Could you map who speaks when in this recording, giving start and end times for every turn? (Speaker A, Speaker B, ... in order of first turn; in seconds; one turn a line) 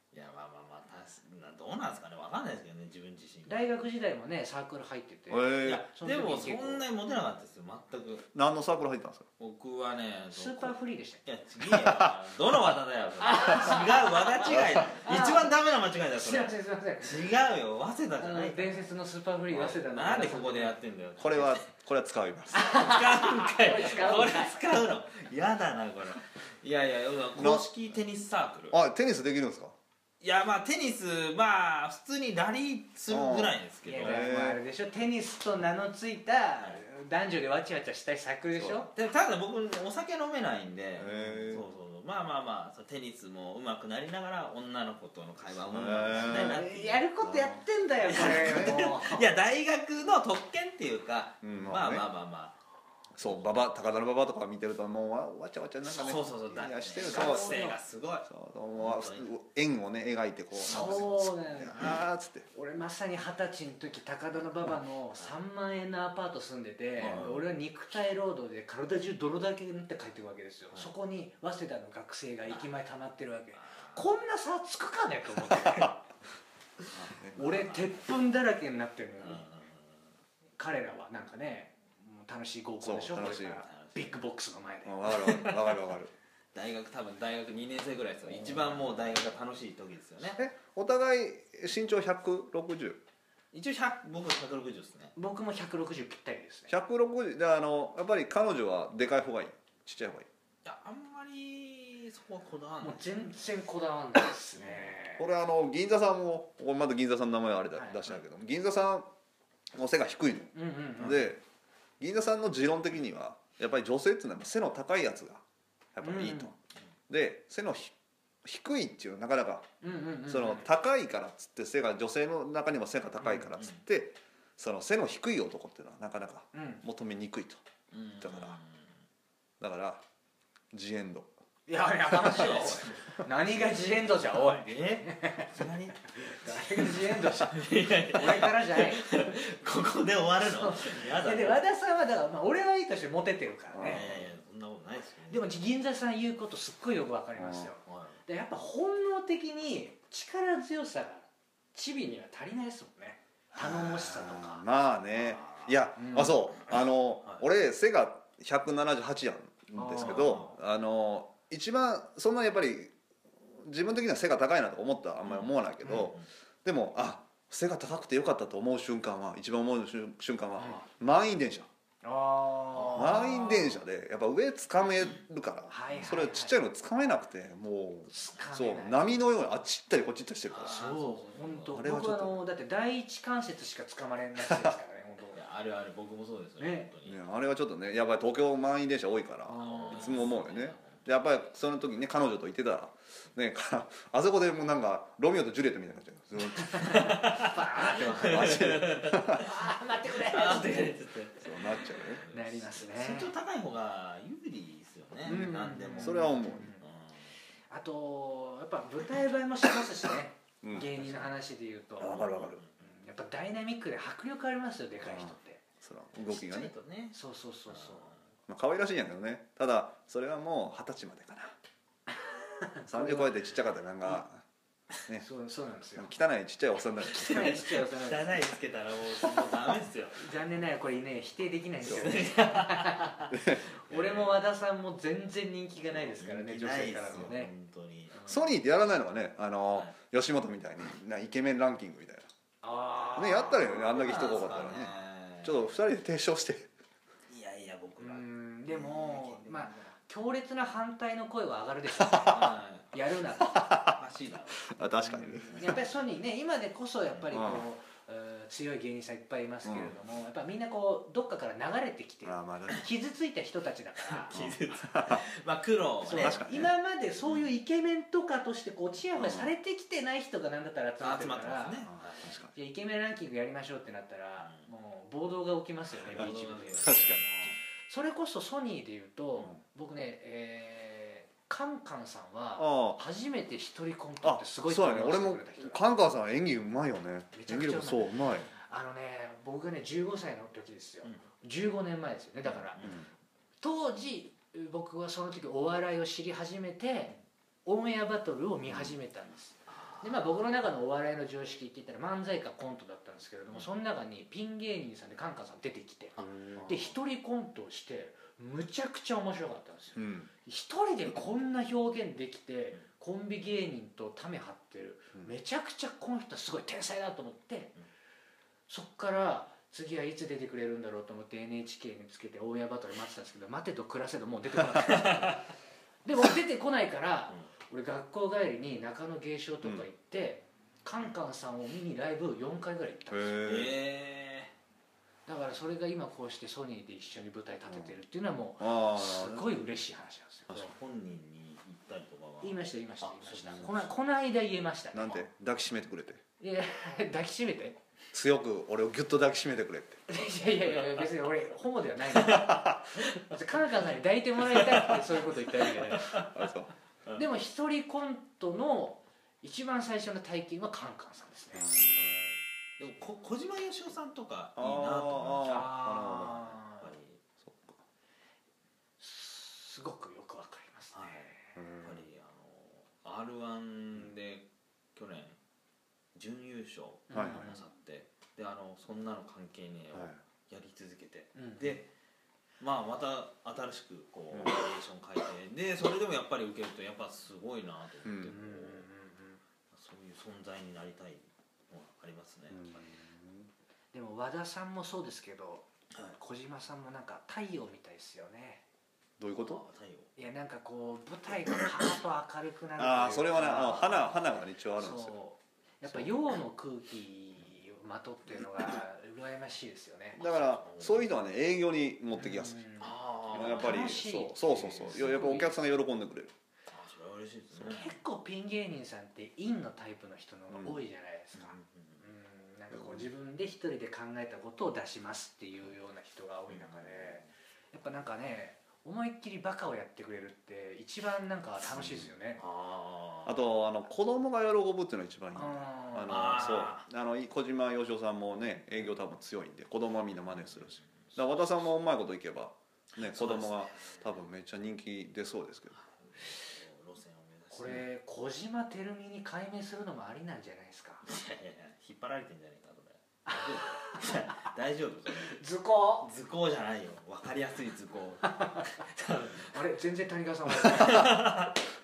Speaker A: 0.1-3.6
Speaker B: 3.5-6.8
Speaker C: 5.3-5.8
Speaker A: 5.6-8.3
Speaker C: 8.3-9.2
Speaker A: 9.4-18.9
Speaker B: 10.3-11.2
Speaker C: 11.6-12.1
Speaker B: 13.2-15.5
Speaker C: 14.5-14.8
Speaker B: 16.1-17.3
Speaker B: 18.2-20.8
Speaker A: 19.5-21.7
Speaker C: 21.2-22.6
Speaker B: 22.5-24.6
Speaker A: 22.6-28.8
Speaker C: 27.4-27.7
Speaker C: 28.7-29.7
Speaker A: 30.2-34.3
Speaker C: 33.1-34.6
Speaker B: 33.9-38.9
Speaker C: 38.6-38.8
Speaker A: 38.9-47.1
Speaker C: 41.0-41.6
Speaker C: 45.7-46.6
Speaker B: 46.0-49.3
Speaker C: 47.2-48.9
Speaker A: 48.0-52.5
Speaker C: 51.4-52.1
Speaker C: 53.2-57.7
Speaker A: 55.8-59.3
Speaker B: 57.0-57.8
Speaker C: 58.3-62.5
Speaker B: 60.6-62.0
Speaker A: 60.6-61.2
Speaker A: 61.7-62.0
Speaker B: 62.5-75.9
Speaker C: 67.0-67.3
Speaker A: 67.0-67.4
Speaker A: 73.5-74.1
Speaker A: 75.5-75.8
Speaker C: 76.9-77.4
Speaker B: 77.3-79.5
Speaker A: 77.3-78.1
Speaker A: 79.2-80.1
Speaker B: 80.6-85.0
Speaker C: 82.8-83.6
Speaker A: 83.1-84.2
Speaker C: 84.8-86.1
Speaker A: 85.1-85.7
Speaker A: 86.5-90.4
Speaker C: 90.4-93.0
Speaker A: 93.5-95.1
Speaker B: 95.2-96.7
Speaker C: 96.7-100.3
Speaker A: 100.6-103.3
Speaker B: 102.8-105.2
Speaker A: 104.6-105.0
Speaker C: 105.2-109.1
Speaker B: 107.7-108.0
Speaker C: 109.7-111.4
Speaker B: 110.5-111.3
Speaker C: 112.0-115.4
Speaker C: 115.9-116.5
Speaker B: 116.0-116.5
Speaker C: 117.1-119.7
Speaker B: 119.8-120.7
Speaker C: 120.2-127.6
Speaker B: 123.2-123.5
Speaker B: 126.5-126.8
Speaker A: 127.9-128.8
Speaker C: 128.2-128.6
Speaker C: 129.6-130.0
Speaker C: 130.7-131.3
Speaker B: 131.7-135.6
Speaker A: 132.0-141.6
Speaker B: 136.1-139.0
Speaker B: 140.5-144.1
Speaker C: 143.7-144.2
Speaker A: 143.8-145.5
Speaker B: 145.3-154.6
Speaker C: 147.4-147.7
Speaker A: 147.8-148.2
Speaker C: 153.5-162.9
Speaker A: 155.1-155.9
Speaker B: 156.0-156.4
Speaker A: 156.5-157.4
Speaker B: 159.7-160.6
Speaker A: 160.0-160.6
Speaker C: 163.6-171.7
Speaker A: 165.2-166.3
Speaker B: 165.8-166.1
Speaker B: 172.0-173.7
Speaker A: 172.8-173.7
Speaker C: 172.9-180.8
Speaker B: 175.7-176.5
Speaker B: 178.1-179.1
Speaker A: 180.5-181.8
Speaker B: 180.6-185.4
Speaker C: 181.7-182.4
Speaker A: 185.3-187.2
Speaker B: 186.6-186.9
Speaker C: 187.0-197.2
Speaker B: 189.5-190.3
Speaker A: 189.6-191.0
Speaker B: 196.7-198.8
Speaker A: 196.8-199.5
Speaker C: 198.2-199.5
Speaker B: 199.4-200.9
Speaker A: 200.1-207.3
Speaker C: 201.4-202.2
Speaker B: 202.3-203.3
Speaker B: 205.2-206.8
Speaker C: 205.3-206.7
Speaker B: 207.7-215.6
Speaker C: 210.6-211.3
Speaker C: 212.0-212.6
Speaker A: 212.2-212.7
Speaker C: 215.0-216.7
Speaker A: 216.2-217.2
Speaker B: 217.1-218.1
Speaker A: 217.7-218.1
Speaker C: 218.5-221.5
Speaker B: 222.1-223.3
Speaker C: 222.9-224.4
Speaker B: 225.2-226.1
Speaker C: 225.9-227.6
Speaker A: 227.1-230.3
Speaker B: 227.2-228.3
Speaker B: 230.2-237.5
Speaker C: 231.8-232.1
Speaker A: 231.8-233.3
Speaker C: 233.3-233.6
Speaker A: 233.9-234.4
Speaker A: 236.0-238.3
Speaker C: 238.3-242.3
Speaker B: 242.6-244.5
Speaker C: 243.2-246.7
Speaker A: 243.6-245.8
Speaker A: 247.3-249.8
Speaker B: 248.0-253.7
Speaker A: 252.2-253.0
Speaker C: 253.5-254.0
Speaker A: 253.9-254.8
Speaker C: 254.7-255.8
Speaker B: 255.0-264.3
Speaker A: 255.4-255.7
Speaker C: 257.3-257.6
Speaker C: 259.6-259.9
Speaker C: 262.2-262.9
Speaker A: 264.1-266.4
Speaker C: 264.3-265.2
Speaker B: 266.0-271.9
Speaker C: 266.1-266.7
Speaker C: 269.1-269.5
Speaker A: 271.0-272.3
Speaker C: 272.0-272.5
Speaker B: 272.5-277.2
Speaker A: 274.4-274.7
Speaker A: 276.1-277.5
Speaker C: 276.8-277.2
Speaker B: 277.9-285.8
Speaker C: 282.6-283.0
Speaker C: 284.2-288.5
Speaker B: 287.3-292.8
Speaker A: 292.7-293.0
Speaker C: 292.8-293.1
Speaker B: 293.6-317.7
Speaker C: 298.7-298.9
Speaker A: 299.7-300.2
Speaker A: 306.2-306.9
Speaker C: 309.9-310.3
Speaker B: 318.7-325.4
Speaker A: 324.9-325.4
Speaker B: 326.0-333.4
Speaker C: 333.1-333.7
Speaker A: 333.4-334.5
Speaker B: 335.3-340.7
Speaker C: 337.7-337.9
Speaker C: 338.6-339.5
Speaker A: 340.5-343.9
Speaker B: 342.4-345.2
Speaker C: 344.9-346.2
Speaker B: 346.4-347.8
Speaker C: 348.1-350.0
Speaker B: 350.1-356.2
Speaker A: 352.1-353.0
Speaker A: 354.5-355.0
Speaker A: 355.7-356.4
Speaker C: 356.2-356.7
Speaker B: 357.1-361.7
Speaker C: 361.5-362.4
Speaker A: 362.8-365.8
Speaker C: 364.6-366.5
Speaker B: 365.4-366.9
Speaker A: 366.8-367.2
Speaker C: 367.4-367.8
Speaker B: 369.0-371.3
Speaker A: 370.9-375.4
Speaker C: 371.6-372.0
Speaker A: 376.1-381.9
Speaker B: 377.1-377.6
Speaker C: 377.1-377.5
Speaker B: 381.4-381.8
Speaker A: 382.6-388.9
Speaker C: 388.0-388.3
Speaker B: 388.2-389.4
Speaker A: 389.7-392.8
Speaker C: 392.5-393.5
Speaker B: 393.9-398.6
Speaker A: 395.9-396.2
Speaker C: 399.2-399.6
Speaker A: 399.4-400.1
Speaker B: 400.2-404.2
Speaker C: 402.8-405.1
Speaker B: 404.8-410.2
Speaker C: 405.9-406.1
Speaker C: 410.2-412.6
Speaker A: 410.2-411.1
Speaker B: 412.1-415.5
Speaker A: 412.8-413.8
Speaker C: 413.3-416.3
Speaker A: 414.6-415.0
Speaker A: 416.7-417.9
Speaker B: 417.6-432.4
Speaker C: 420.5-420.8
Speaker A: 421.3-422.0
Speaker C: 422.7-423.1
Speaker A: 426.5-427.3
Speaker C: 431.7-432.1
Speaker A: 432.4-433.4
Speaker C: 433.2-445.8
Speaker B: 435.3-436.6
Speaker A: 436.1-436.8
Speaker A: 440.5-441.7
Speaker A: 442.9-444.2
Speaker A: 445.7-447.8
Speaker B: 447.5-451.0
Speaker A: 451.1-455.4
Speaker B: 453.2-454.5
Speaker B: 455.3-456.1
Speaker A: 456.0-459.6
Speaker B: 458.2-458.7
Speaker B: 459.4-461.2
Speaker A: 460.6-461.6
Speaker C: 460.8-461.1